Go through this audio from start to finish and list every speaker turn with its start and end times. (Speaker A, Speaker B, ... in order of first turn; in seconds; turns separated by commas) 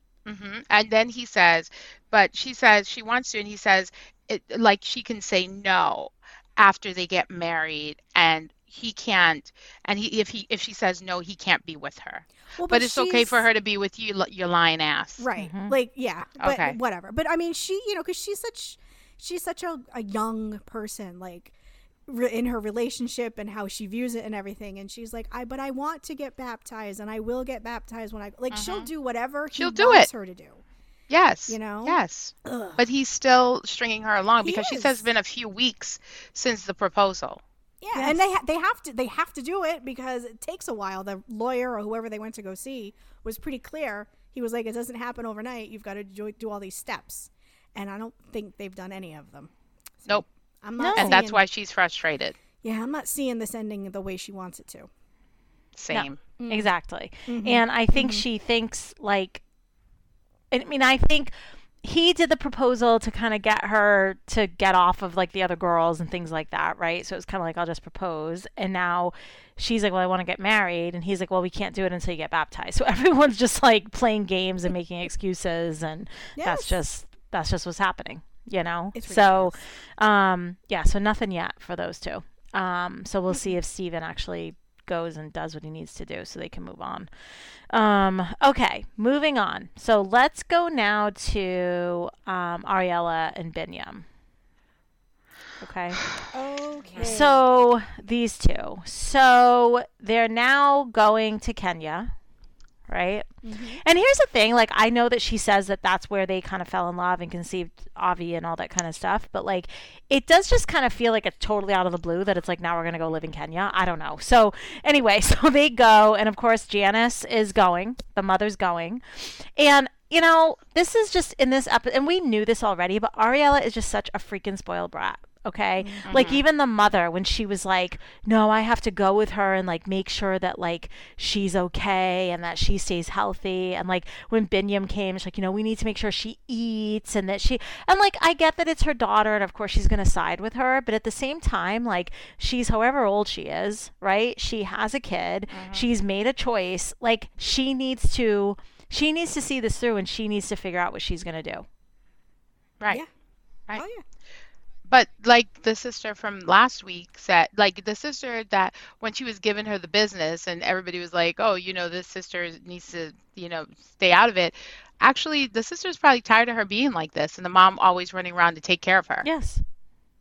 Speaker A: 0.3-15.2, Speaker B: 12.6-13.4, Speaker B: 15.2-21.5, Speaker C: 15.4-15.7, Speaker A: 16.4-16.8, Speaker B: 22.1-30.6, Speaker A: 28.5-28.9, Speaker A: 29.5-30.1, Speaker A: 31.1-37.4, Speaker B: 31.5-32.8, Speaker B: 34.4-35.1, Speaker B: 37.8-51.4, Speaker C: 37.9-38.2, Speaker C: 50.8-51.2, Speaker A: 51.0-52.4, Speaker B: 52.6-54.9, Speaker A: 55.8-56.2, Speaker C: 55.9-59.4, Speaker B: 56.4-56.7, Speaker B: 57.3-58.2, Speaker C: 60.5-87.1, Speaker B: 76.4-76.8, Speaker B: 78.9-79.6, Speaker C: 87.7-94.0, Speaker C: 95.6-96.0, Speaker B: 96.3-97.6, Speaker A: 96.9-97.2, Speaker C: 97.0-102.1, Speaker C: 102.9-103.3, Speaker B: 103.4-103.8, Speaker C: 103.8-151.7, Speaker B: 125.8-126.2, Speaker A: 126.1-126.4, Speaker A: 145.5-145.9, Speaker B: 153.8-154.0, Speaker A: 154.9-169.3, Speaker C: 169.2-169.6